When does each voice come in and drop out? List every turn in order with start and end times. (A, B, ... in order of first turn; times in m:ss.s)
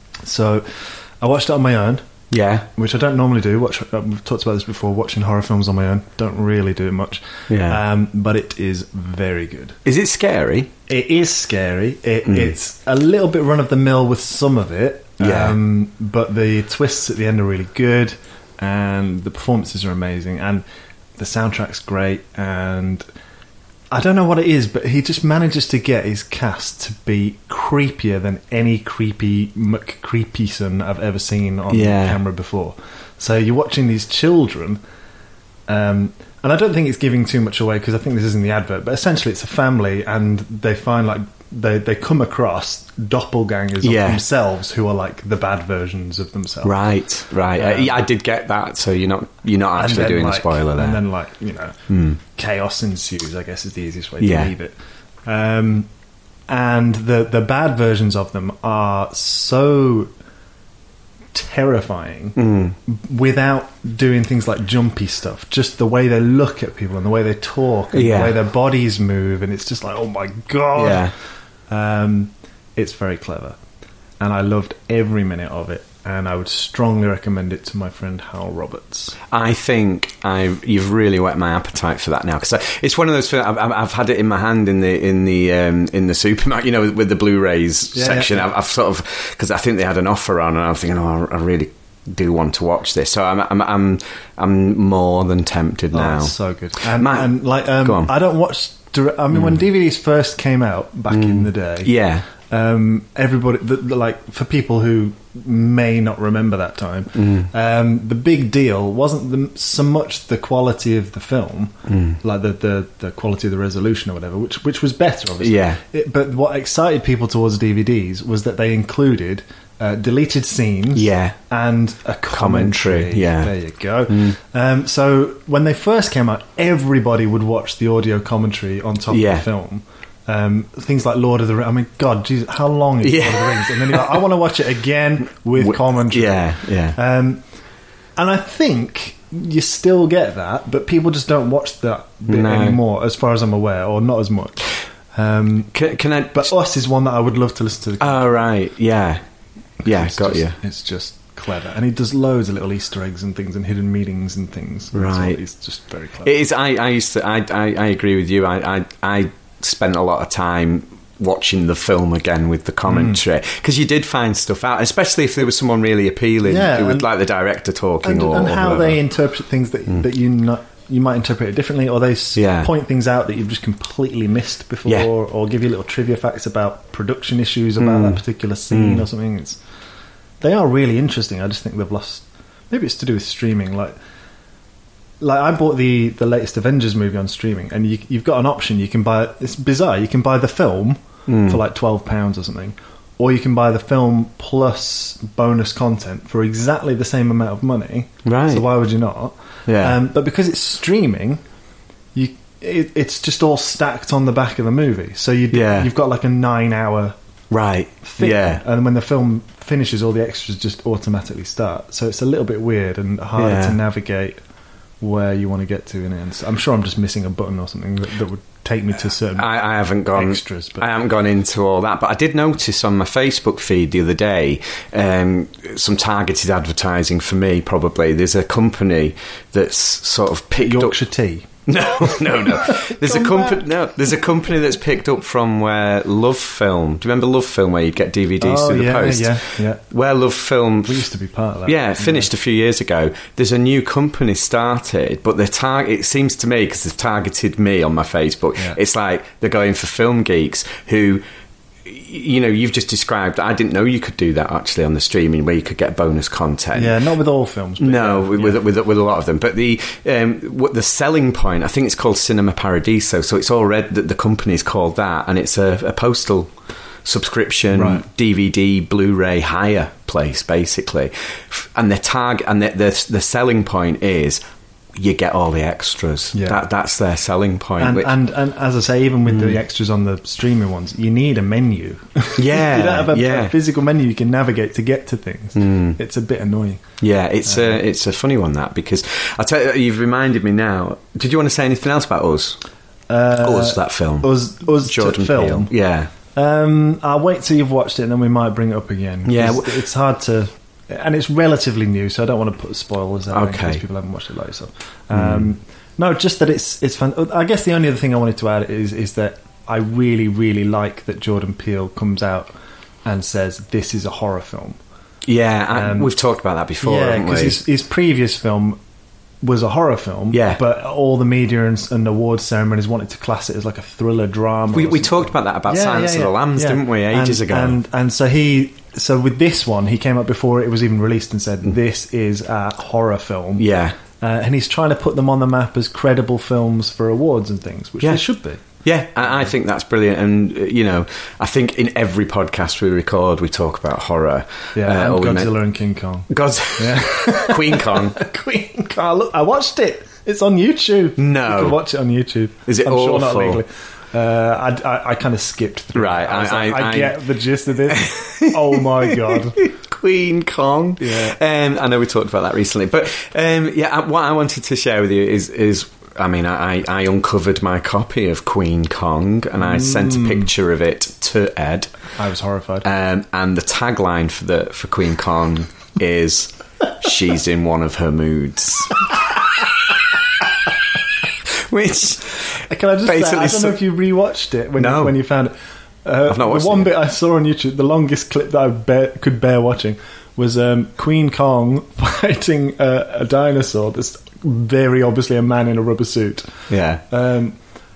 0:00.2-0:02.0 A
0:02.3-0:02.7 B
0:02.7-0:09.8 A
0:07.5-0:07.8 B
0:09.8-0:10.7 B
0:10.9-0:20.6 A
0:12.3-0:12.5 B
0:15.2-0:15.6 B
0:21.2-0:23.0 A
0:23.9-0:34.8 A
0:31.7-0:32.2 B
0:35.7-0:46.8 A
0:43.8-0:44.2 B
0:46.6-0:51.0 B
0:47.5-0:48.0 A
0:49.7-0:55.9 A
0:51.9-0:52.2 B
0:54.2-0:54.5 B
0:56.5-1:00.1 A
1:01.3-1:11.1 A
1:02.4-1:02.8 B
1:07.9-1:08.4 B
1:10.7-1:11.1 B
1:11.7-1:13.6 A
1:14.2-1:19.2 A
1:19.3-1:38.1 B
1:27.9-1:28.5 A
1:35.9-2:17.4 A
1:41.1-1:42.2 B
1:47.1-1:47.5 B
1:51.9-1:52.2 B
1:55.4-1:55.8 B
2:00.9-2:01.4 B
2:02.3-2:03.5 B
2:04.1-2:04.4 B
2:09.1-2:09.4 B
2:13.0-2:14.2 B
2:15.6-2:17.0 B
2:18.2-2:25.7 A
2:22.3-2:22.8 B
2:25.7-2:26.5 B
2:26.3-2:28.3 A
2:28.0-2:29.2 B
2:29.8-2:30.6 B
2:29.8-2:36.3 A
2:34.9-2:35.4 B
2:36.2-2:49.0 B
2:42.9-2:43.2 A
2:46.4-2:47.1 A
2:48.0-2:59.6 A
2:52.4-2:52.7 B
2:57.8-2:58.2 B
2:58.7-2:59.0 B
3:00.4-3:03.9 A
3:05.2-3:21.4 A
3:11.3-3:11.6 B
3:18.2-3:18.6 B
3:19.7-3:20.0 B
3:22.1-3:27.2 A
3:25.5-3:25.9 B
3:27.5-3:28.6 B
3:28.0-3:34.4 A
3:33.4-3:33.8 B
3:35.0-3:39.5 A
3:39.4-3:51.0 B
3:40.1-3:40.8 A
3:50.6-3:51.5 A
3:51.7-4:01.1 B
3:52.0-3:53.6 A
3:58.4-3:59.8 A
4:00.8-4:02.3 A
4:01.6-4:11.2 B
4:11.8-4:17.0 B
4:16.7-4:18.6 A
4:17.8-4:26.5 B
4:27.0-4:34.4 B
4:27.7-4:28.0 A
4:35.0-4:38.1 B
4:36.3-4:36.6 A
4:37.8-4:46.8 A
4:39.3-4:39.6 B
4:42.4-4:43.5 B
4:45.6-4:46.0 B
4:47.0-4:52.6 B
4:47.4-4:47.8 A
4:53.1-4:55.7 A
4:53.4-4:56.1 B
4:56.3-5:12.5 A
4:59.2-4:59.8 B
5:03.3-5:03.8 B
5:05.1-5:05.5 B
5:13.0-5:14.8 A
5:15.3-5:17.6 B
5:15.7-5:16.1 A
5:16.8-5:18.8 A
5:19.4-5:33.6 A
5:20.3-5:20.6 B
5:24.7-5:27.8 B
5:33.6-5:34.0 B
5:34.2-5:38.6 A
5:38.8-5:45.5 B
5:44.7-5:59.6 A
5:46.3-5:48.2 B
5:51.2-5:51.8 B
5:52.7-5:53.6 B
5:55.9-5:57.2 B
5:57.9-6:11.9 B
6:01.0-6:01.4 A
6:09.6-6:10.5 A
6:12.2-6:12.8 A
6:12.8-6:19.0 B
6:21.6-6:23.8 B
6:22.6-6:36.5 A
6:24.8-6:25.1 B
6:26.2-6:26.9 B
6:36.7-6:37.0 B
6:37.1-6:37.6 A